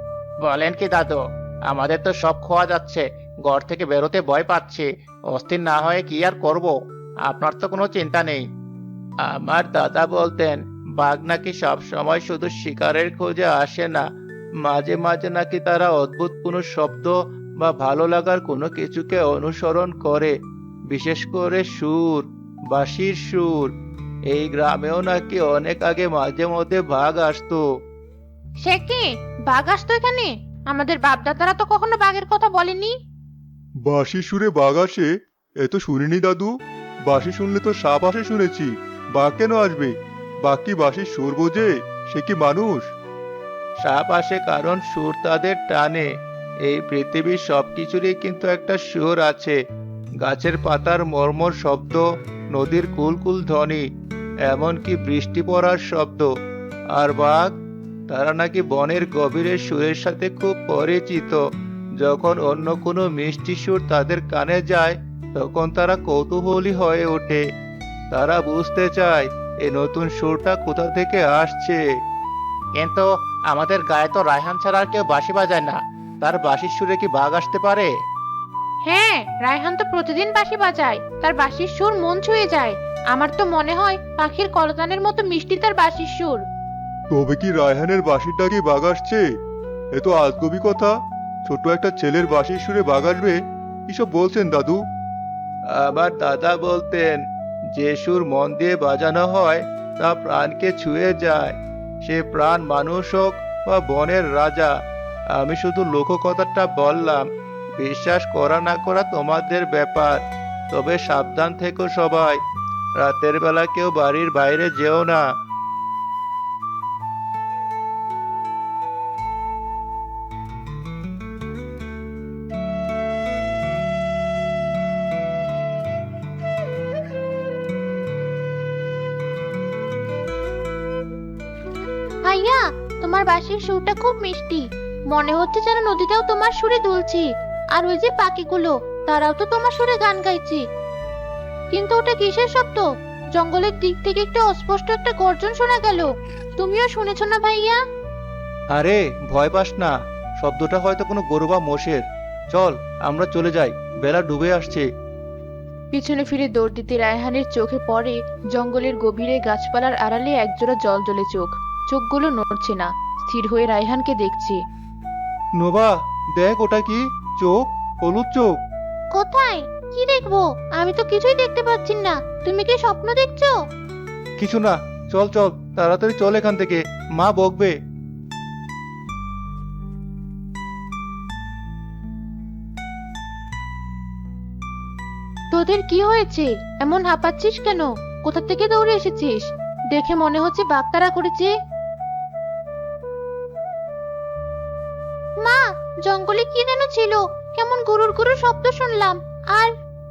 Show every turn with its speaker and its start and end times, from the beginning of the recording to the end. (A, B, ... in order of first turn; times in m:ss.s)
0:00.4-0:08.4 A
0:09.2-0:14.1 B
0:14.6-0:20.3 B
0:20.9-0:23.7 B
0:24.3-0:27.6 B
0:28.6-0:32.9 C
0:33.8-0:35.1 D
0:35.6-0:36.5 D
0:37.1-0:42.9 D
0:43.8-0:46.1 B
0:46.6-0:49.6 B
0:50.2-0:53.8 B
0:54.5-0:56.3 B
0:56.9-0:57.6 B
0:58.1-1:01.4 B
1:02.0-1:07.4 B
1:08.1-1:11.8 B
1:12.8-1:17.9 A
1:18.8-1:26.4 C
1:27.1-1:29.2 D
1:29.9-1:30.9 D
1:31.5-1:34.8 D
1:35.7-1:37.2 B
1:37.7-1:44.7 B
1:45.3-1:47.3 B
1:47.8-1:52.4 B
1:53.0-1:55.2 B
2:12.2-2:20.6 C
2:21.7-2:27.8 C
2:28.7-2:34.8 B
2:35.9-2:44.6 E
2:45.6-2:48.5 B
2:49.1-2:53.6 C
2:54.4-2:57.7 B
3:05.5-3:11.5 C
3:15.4-3:19.7 C